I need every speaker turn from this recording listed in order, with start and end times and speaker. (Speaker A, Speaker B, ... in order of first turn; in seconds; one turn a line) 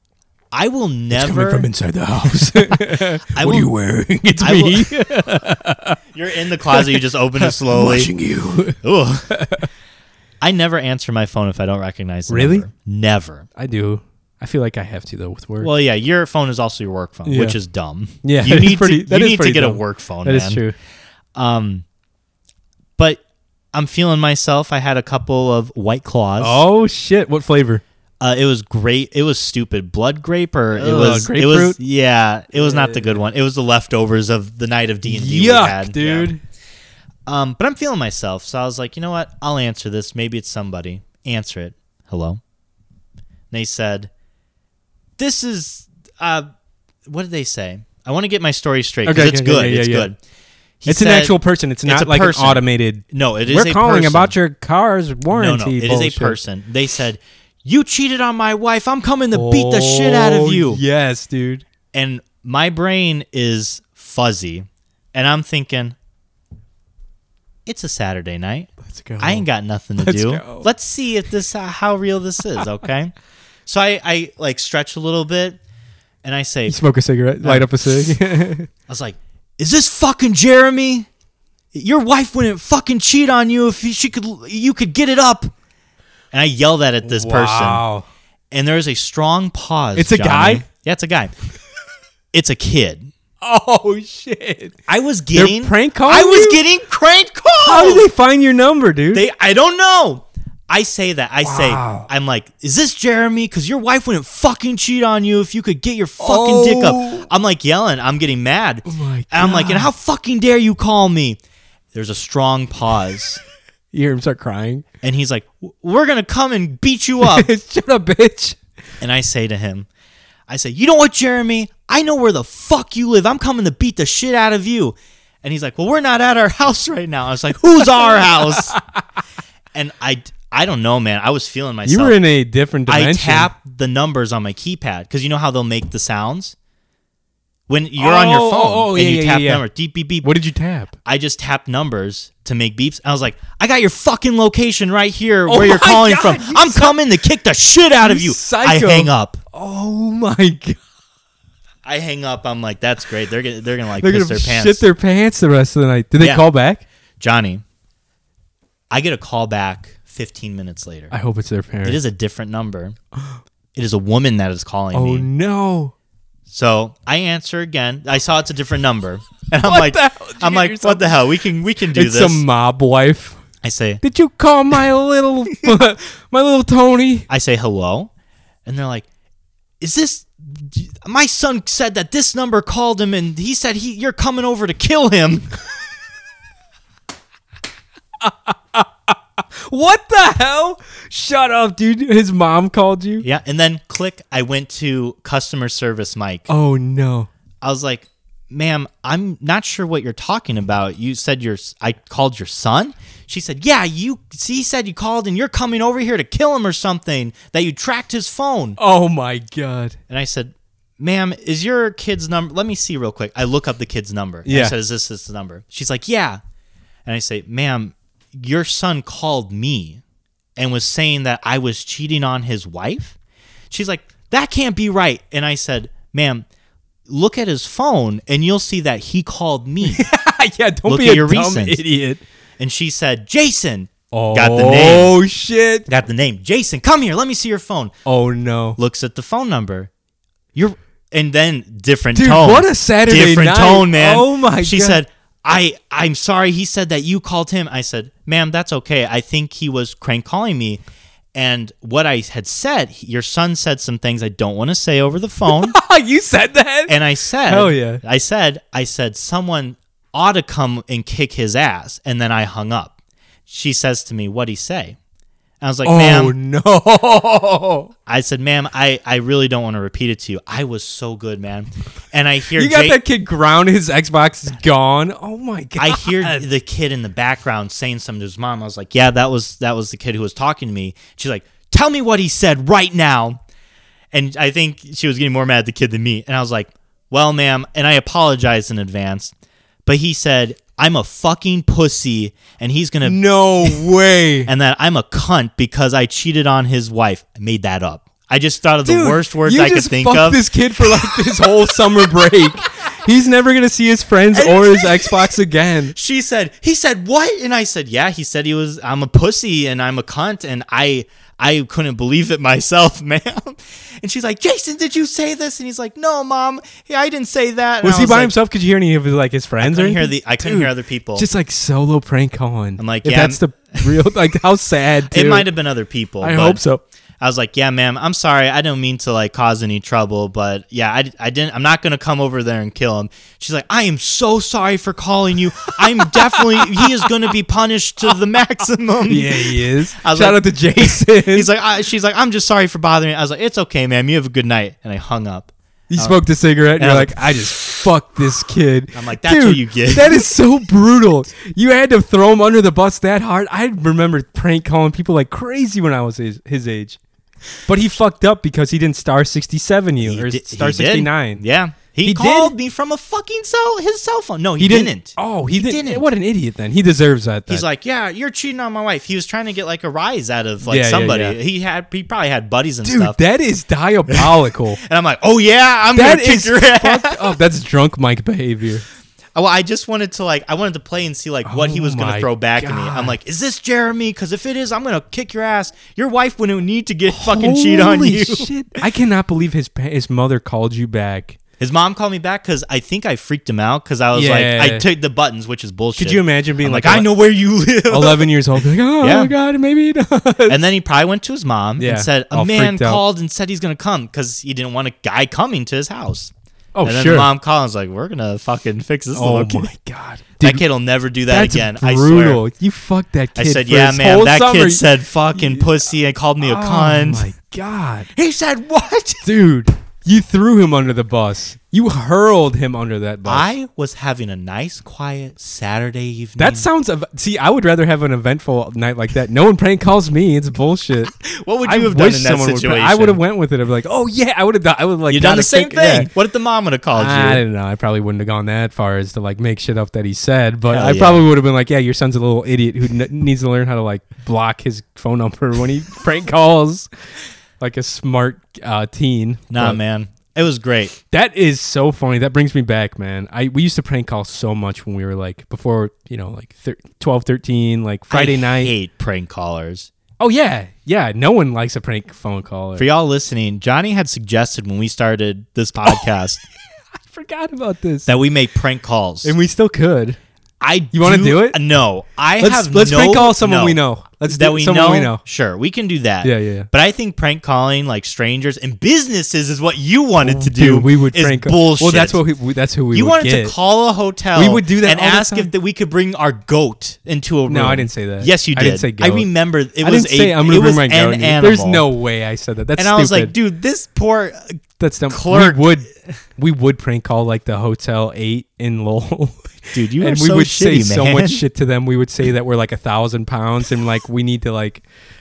Speaker A: 0.5-1.7
Speaker B: 1.1-6.0
Speaker A: 2.2-3.7
Speaker A: 4.4-5.1
Speaker A: 6.1-8.1
Speaker B: 6.7-9.7
Speaker A: 8.8-9.4
Speaker A: 10.4-13.5
Speaker B: 12.3-12.7
Speaker B: 13.6-15.7
Speaker A: 15.6-20.6
Speaker B: 17.2-17.6
Speaker B: 18.2-20.7
Speaker A: 21.3-21.8
Speaker A: 23.7-26.6
Speaker B: 26.4-27.8
Speaker A: 28.2-36.3
Speaker B: 30.7-31.8
Speaker B: 32.5-33.2
Speaker B: 35.0-36.4
Speaker A: 37.2-42.4
Speaker A: 43.5-44.1
Speaker A: 45.2-46.5
Speaker A: 47.0-50.2
Speaker B: 49.0-50.1
Speaker A: 50.8-54.3
Speaker B: 50.9-56.4
Speaker A: 55.3-60.8
Speaker B: 59.3-61.6
Speaker A: 61.9-66.0
Speaker A: 67.7-73.1
Speaker B: 68.8-69.5
Speaker B: 70.0-70.7
Speaker A: 73.7-75.6
Speaker A: 76.2-76.8
Speaker B: 76.7-78.7
Speaker A: 77.4-78.2
Speaker A: 78.9-81.1
Speaker A: 81.7-85.5
Speaker A: 86.3-87.8
Speaker B: 87.0-88.0
Speaker A: 88.5-91.3
Speaker B: 89.9-90.6
Speaker A: 92.3-93.1
Speaker B: 93.4-94.8
Speaker A: 94.9-98.1
Speaker B: 95.3-96.6
Speaker B: 97.6-99.2
Speaker A: 99.1-111.4
Speaker B: 101.4-102.1
Speaker B: 106.2-107.3
Speaker B: 108.8-109.9
Speaker A: 111.9-113.4
Speaker B: 113.9-114.8
Speaker A: 115.0-117.5
Speaker B: 117.2-118.6
Speaker A: 119.0-119.9
Speaker A: 120.5-128.8
Speaker B: 128.0-129.0
Speaker A: 129.7-132.2
Speaker B: 131.8-133.5
Speaker A: 132.9-136.5
Speaker A: 137.7-140.3
Speaker B: 138.0-139.6
Speaker B: 140.2-140.9
Speaker A: 141.0-149.4
Speaker B: 145.4-147.0
Speaker B: 148.0-150.8
Speaker A: 151.8-154.8
Speaker B: 154.0-156.8
Speaker A: 156.2-156.4
Speaker A: 157.2-157.6
Speaker A: 158.9-161.1
Speaker B: 161.1-162.0
Speaker A: 161.8-162.9
Speaker A: 163.7-165.3
Speaker B: 164.9-165.9
Speaker A: 166.5-172.4
Speaker B: 169.6-171.1
Speaker B: 171.9-173.4
Speaker A: 173.6-174.0
Speaker B: 174.0-177.3
Speaker A: 177.3-178.1
Speaker A: 178.7-179.1
Speaker A: 179.8-185.5
Speaker B: 188.2-189.1
Speaker B: 189.7-193.2
Speaker A: 193.2-196.5
Speaker B: 196.5-197.3
Speaker A: 197.6-208.8
Speaker B: 208.8-210.0
Speaker A: 210.1-216.4
Speaker B: 214.4-214.7
Speaker A: 217.1-220.0
Speaker A: 220.6-223.2
Speaker A: 223.7-226.4
Speaker A: 227.1-230.1
Speaker B: 229.8-232.2
Speaker A: 230.9-231.8
Speaker A: 232.6-235.1
Speaker B: 234.1-235.9
Speaker A: 235.9-237.9
Speaker B: 238.1-238.8
Speaker A: 238.8-239.9
Speaker A: 240.5-250.8
Speaker B: 242.1-245.0
Speaker A: 251.3-255.8
Speaker B: 255.5-256.9
Speaker A: 256.9-262.9
Speaker B: 257.5-258.0
Speaker A: 263.5-265.0
Speaker A: 265.6-266.3
Speaker B: 265.8-267.9
Speaker A: 268.1-273.0
Speaker B: 272.6-276.4
Speaker A: 275.8-283.4
Speaker A: 284.1-289.3
Speaker A: 289.9-293.8
Speaker B: 293.0-294.5
Speaker A: 294.4-302.3
Speaker B: 298.8-305.9
Speaker A: 304.3-305.4
Speaker A: 305.9-318.3
Speaker B: 317.8-325.5
Speaker A: 319.6-321.2
Speaker A: 322.8-324.0
Speaker A: 325.1-326.6
Speaker B: 326.2-326.8
Speaker A: 327.2-346.2
Speaker B: 335.9-337.0
Speaker B: 339.1-341.5
Speaker B: 345.9-357.0
Speaker A: 346.8-347.4
Speaker A: 348.9-350.3
Speaker B: 357.6-361.4
Speaker A: 360.0-366.1
Speaker B: 362.0-362.5
Speaker B: 364.6-367.6
Speaker A: 367.5-373.2
Speaker B: 370.6-371.4
Speaker B: 372.8-374.8
Speaker A: 374.1-377.4
Speaker B: 375.9-378.8
Speaker A: 379.3-388.8
Speaker B: 381.4-383.1
Speaker B: 387.1-391.4
Speaker A: 391.6-398.3
Speaker B: 394.1-394.8
Speaker B: 396.0-397.1
Speaker B: 397.9-400.6
Speaker A: 399.0-399.3
Speaker A: 400.5-406.3
Speaker B: 401.8-403.0
Speaker B: 406.7-407.3
Speaker A: 406.8-409.7
Speaker B: 409.1-410.6
Speaker A: 410.4-412.4
Speaker B: 411.3-415.6
Speaker A: 413.4-417.3
Speaker B: 416.4-418.1
Speaker A: 418.1-419.2
Speaker B: 419.2-423.5
Speaker A: 423.2-426.7
Speaker B: 426.4-431.1
Speaker A: 431.2-433.2
Speaker B: 431.6-436.1
Speaker A: 435.1-437.4
Speaker B: 436.9-446.9
Speaker A: 440.7-441.2
Speaker B: 447.6-449.8
Speaker A: 449.5-451.0
Speaker B: 451.1-458.7
Speaker A: 458.1-459.9
Speaker B: 460.2-462.9
Speaker A: 462.8-466.4
Speaker B: 467.1-468.1
Speaker A: 468.1-469.3
Speaker B: 469.2-470.2
Speaker A: 470.6-482.2
Speaker B: 470.9-471.6
Speaker B: 472.4-475.2
Speaker B: 476.2-476.7
Speaker B: 480.2-483.5
Speaker A: 482.9-491.8
Speaker B: 484.3-485.5
Speaker B: 487.5-489.3
Speaker B: 489.8-493.3
Speaker A: 492.8-495.7
Speaker B: 494.8-504.8
Speaker A: 499.7-501.4